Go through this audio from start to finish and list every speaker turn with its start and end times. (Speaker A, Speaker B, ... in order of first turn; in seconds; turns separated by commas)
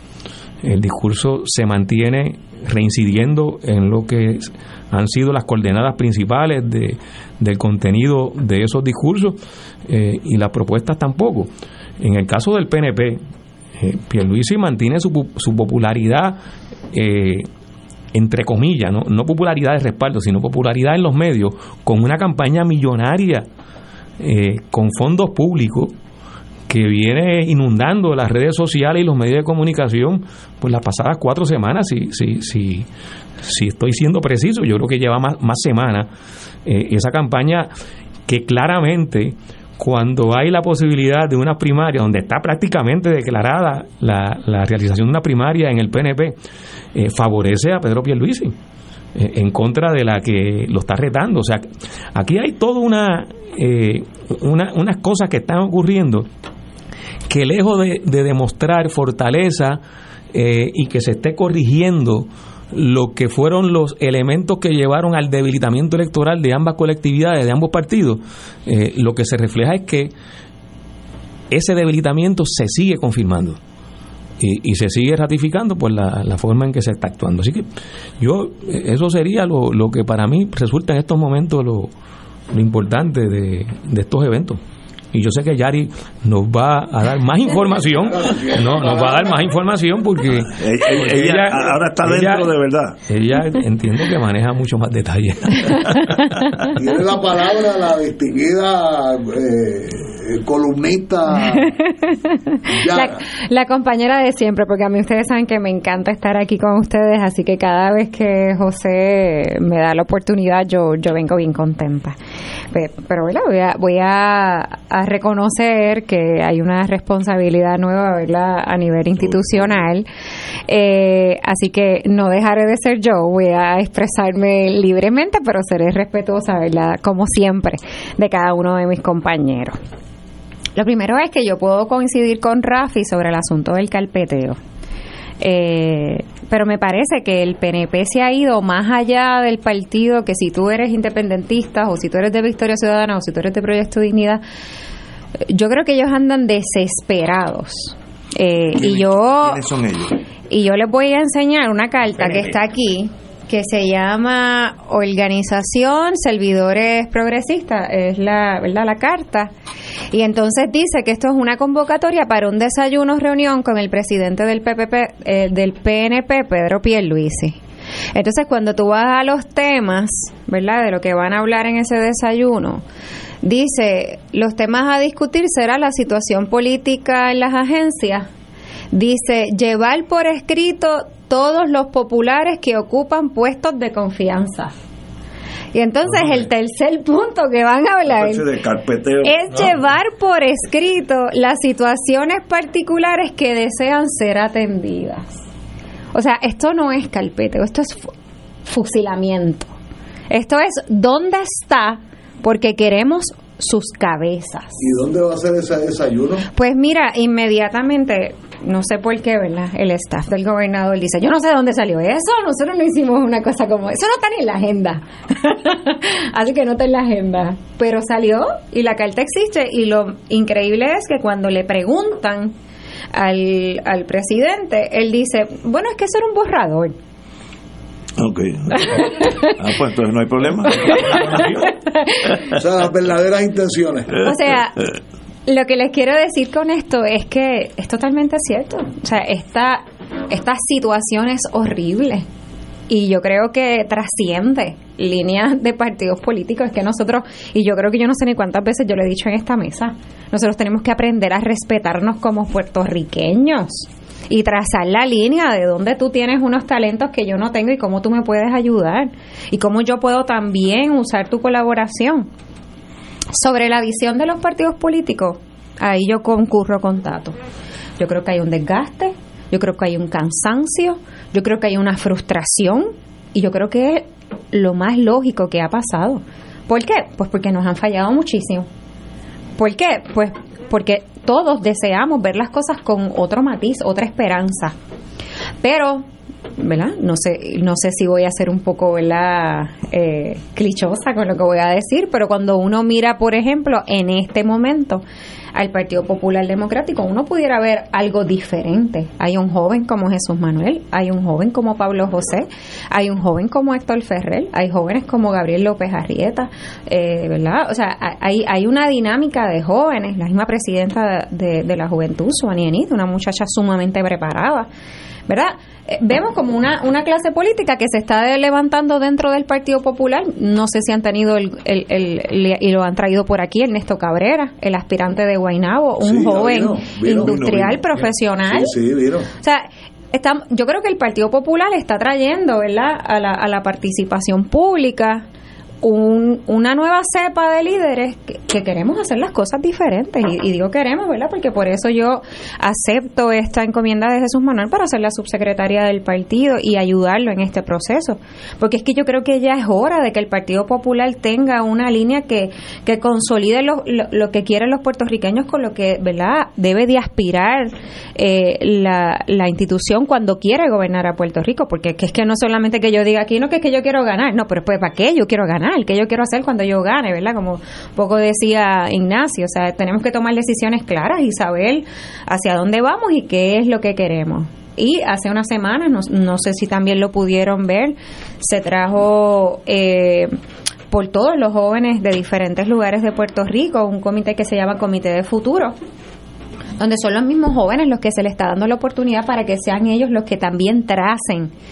Speaker A: 0.6-13.2, Speaker A: 13.8-16.4, Speaker A: 16.9-17.5, Speaker A: 18.1-23.4, Speaker A: 24.2-25.9, Speaker A: 26.7-32.9, Speaker A: 33.4-36.1, Speaker A: 36.6-37.7, Speaker A: 38.3-46.3, Speaker A: 46.9-48.5, Speaker A: 49.1-56.3, Speaker A: 57.3-59.8, Speaker A: 60.3-70.1, Speaker A: 71.5-73.6, Speaker A: 74.4-77.7, Speaker A: 78.2-81.9, Speaker A: 82.5-84.6, Speaker A: 85.1-92.5, Speaker B: 88.0-89.5, Speaker C: 90.6-93.0, Speaker A: 93.1-96.2, Speaker B: 96.8-101.7, Speaker D: 101.8-112.2, Speaker B: 102.7-103.2, Speaker D: 112.7-120.1, Speaker C: 119.2-119.9, Speaker D: 120.7-129.8, Speaker D: 130.8-134.6, Speaker D: 135.4-144.4, Speaker D: 145.5-149.6, Speaker C: 148.8-150.2, Speaker D: 150.5-159.5, Speaker C: 152.2-152.5, Speaker D: 160.1-167.6, Speaker D: 168.1-172.8, Speaker D: 173.4-178.3, Speaker D: 178.9-184.7, Speaker D: 185.7-188.4, Speaker C: 186.0-186.5, Speaker C: 188.1-189.8, Speaker D: 189.2-195.3, Speaker D: 196.1-198.1, Speaker D: 198.7-199.7, Speaker D: 200.3-204.7, Speaker B: 204.8-206.5, Speaker D: 206.5-222.5, Speaker D: 223.1-226.9, Speaker C: 228.2-231.6, Speaker D: 228.8-229.6, Speaker D: 230.7-232.3, Speaker B: 232.6-234.1, Speaker D: 234.2-234.7, Speaker D: 235.5-242.2, Speaker D: 242.9-262.3, Speaker D: 263.3-267.3, Speaker D: 268.0-278.7, Speaker D: 279.6-284.7, Speaker D: 285.6-286.0, Speaker D: 286.6-295.0, Speaker D: 295.5-314.7, Speaker D: 315.3-328.7, Speaker B: 326.0-327.7, Speaker B: 328.5-329.3, Speaker D: 329.4-335.2, Speaker D: 335.8-380.3, Speaker D: 380.9-385.7, Speaker D: 386.8-391.5